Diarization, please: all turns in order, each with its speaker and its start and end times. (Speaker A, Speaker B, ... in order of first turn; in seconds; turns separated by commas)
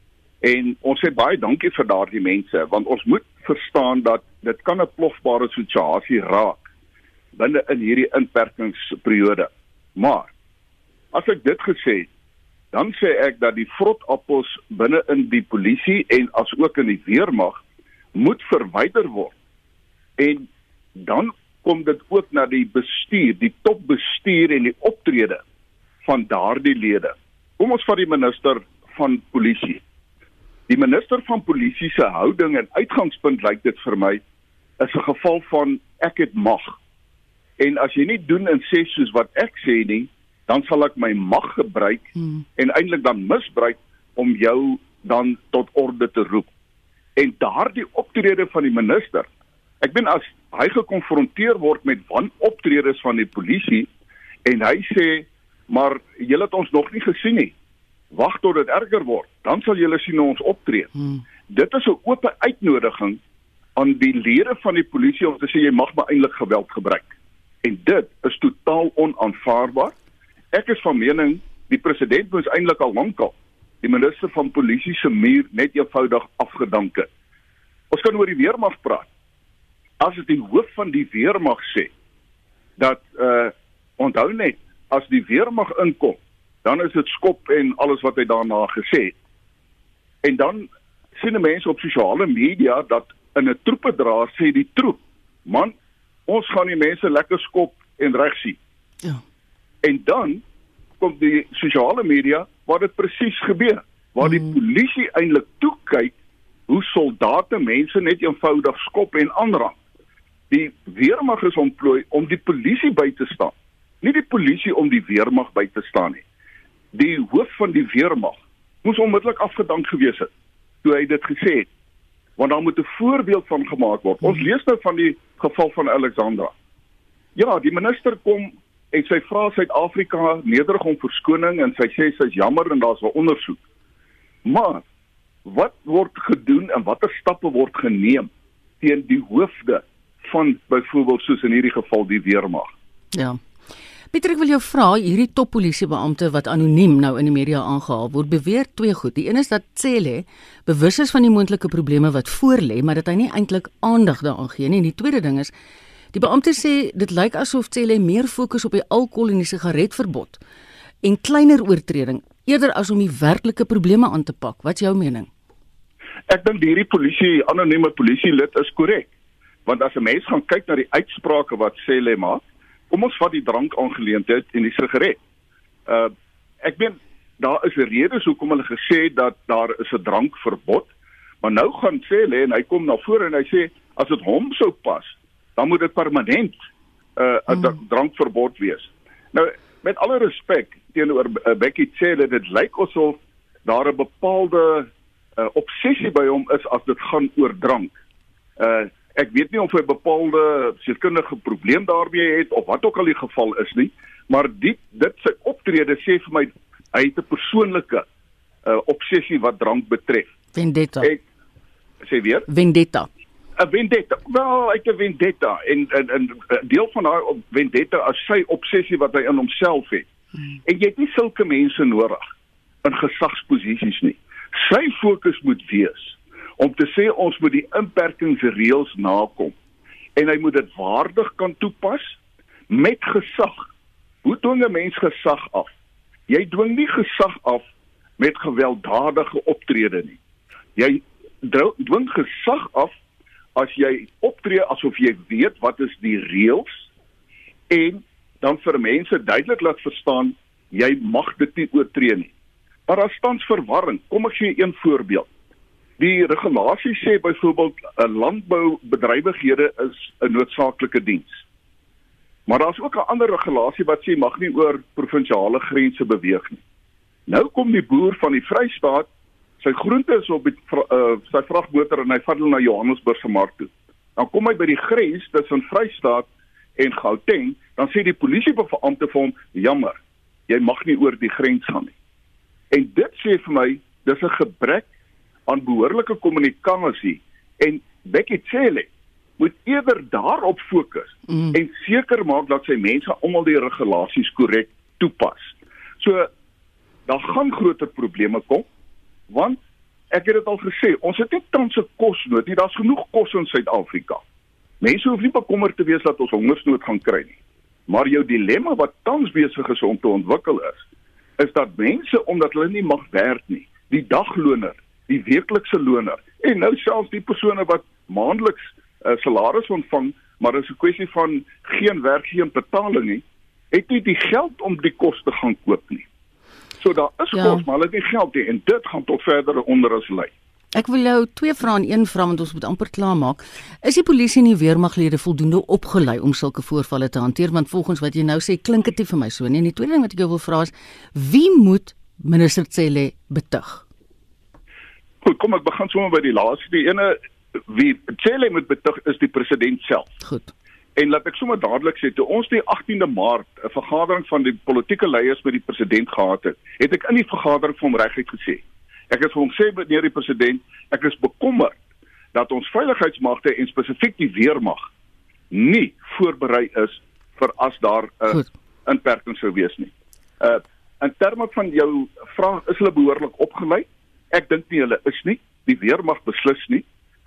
Speaker A: 0.4-6.7, Speaker A: 7.3-10.3, Speaker A: 11.1-12.1, Speaker A: 12.7-17.6, Speaker A: 18.1-19.3, Speaker A: 20.2-20.5, Speaker A: 21.0-25.4, Speaker A: 26.0-29.8, Speaker A: 30.7-34.2, Speaker A: 34.8-36.8, Speaker A: 37.6-46.5, Speaker A: 47.2-49.3, Speaker A: 49.8-53.9, Speaker A: 54.5-57.5, Speaker A: 58.1-60.9, Speaker A: 61.5-63.2, Speaker A: 63.8-67.1, Speaker A: 67.6-69.9, Speaker A: 70.5-77.1, Speaker A: 77.9-79.1, Speaker A: 80.0-81.9, Speaker A: 82.8-89.1, Speaker A: 90.2-90.7, Speaker A: 91.2-95.7, Speaker A: 96.3-98.6, Speaker A: 99.8-100.4, Speaker A: 101.0-106.1, Speaker B: 104.2-104.5, Speaker A: 106.7-109.8, Speaker A: 110.5-116.2, Speaker A: 116.9-120.3, Speaker A: 120.8-121.7, Speaker A: 122.4-126.5, Speaker A: 127.3-133.6, Speaker A: 134.4-134.8, Speaker A: 135.4-138.3, Speaker A: 138.8-142.7, Speaker B: 143.1-143.4, Speaker B: 144.1-155.5, Speaker B: 156.1-160.4, Speaker B: 161.0-165.3, Speaker A: 166.3-169.1, Speaker A: 169.7-175.2, Speaker A: 176.6-180.9, Speaker A: 181.4-186.6, Speaker A: 187.2-194.9, Speaker A: 195.4-197.9, Speaker A: 198.6-208.0, Speaker A: 208.7-210.3, Speaker B: 210.5-211.1, Speaker A: 212.0-212.5, Speaker B: 212.5-213.1, Speaker A: 213.6-220.1, Speaker A: 220.7-222.2, Speaker A: 222.8-229.5, Speaker A: 230.2-232.1, Speaker A: 232.7-233.7, Speaker A: 234.2-235.7, Speaker A: 236.3-237.6, Speaker A: 238.2-240.2, Speaker A: 240.8-242.9, Speaker A: 243.6-246.8, Speaker A: 247.7-252.3, Speaker A: 252.9-255.3, Speaker A: 256.0-261.4, Speaker A: 262.5-266.6, Speaker A: 267.3-269.1, Speaker A: 269.6-276.3, Speaker A: 276.8-281.9, Speaker A: 282.7-284.9, Speaker A: 285.5-288.9, Speaker A: 289.4-296.3, Speaker B: 291.3-291.6, Speaker A: 297.1-298.6, Speaker A: 299.3-299.6, Speaker A: 300.1-304.2, Speaker A: 304.8-307.4, Speaker A: 307.9-310.8, Speaker A: 311.4-326.0, Speaker A: 326.8-330.3, Speaker B: 327.3-327.6, Speaker B: 330.7-343.8, Speaker A: 345.2-347.1, Speaker A: 347.7-350.1, Speaker B: 350.2-350.5, Speaker A: 351.0-361.8, Speaker A: 362.3-364.9, Speaker A: 365.5-376.8